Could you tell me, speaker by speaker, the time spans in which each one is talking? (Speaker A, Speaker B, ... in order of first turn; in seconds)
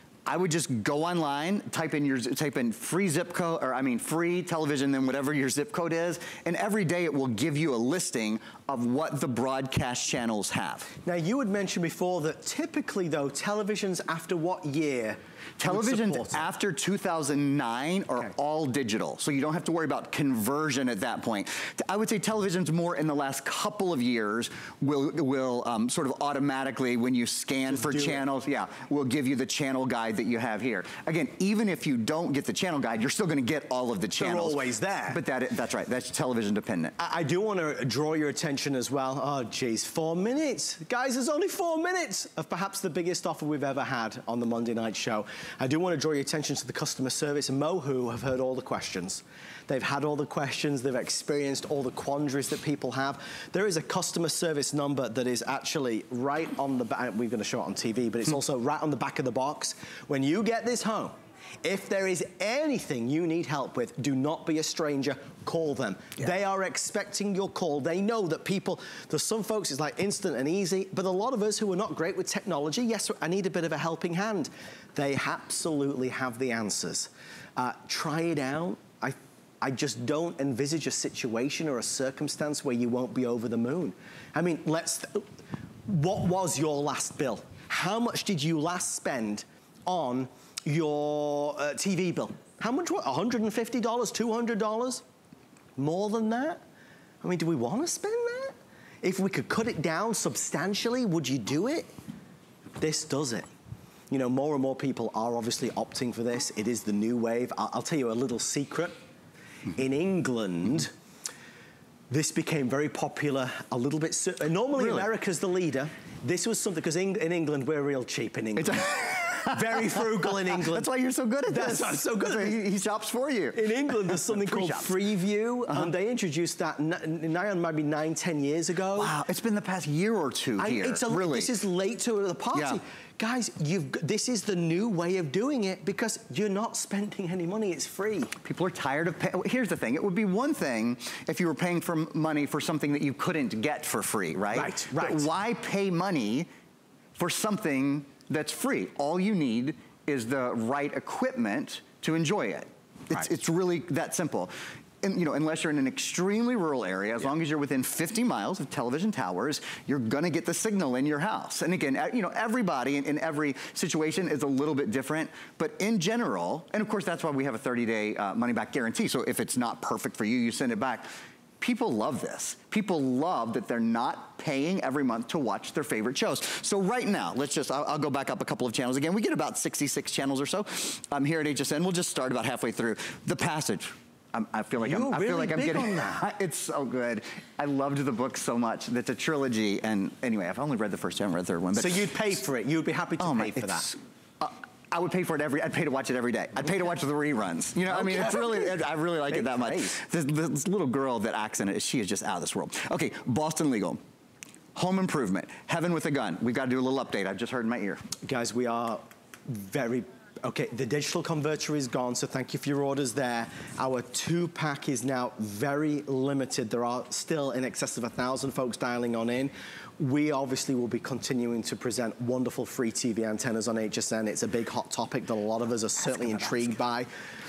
Speaker A: 0.3-10.9, 15.6-37.0, 114.8-115.1, 118.6-124.9, 129.0-131.5, 132.5-132.8, 138.4-146.5, 147.2-171.1, 171.6-192.1, 193.2-204.0, 204.8-208.0
Speaker B: 11.1-16.5, 27.7-28.2, 34.2-35.2, 37.0-85.2, 85.9-95.0, 95.8-96.6, 97.2-101.9, 102.8-103.5, 104.1-109.0, 109.7-110.9, 112.1-120.9, 121.5-122.6, 123.5-129.1, 130.6-138.3, 144.5-145.3, 184.8-186.2, 191.8-193.9, 197.9-198.7, 199.3-200.0, 208.2-227.1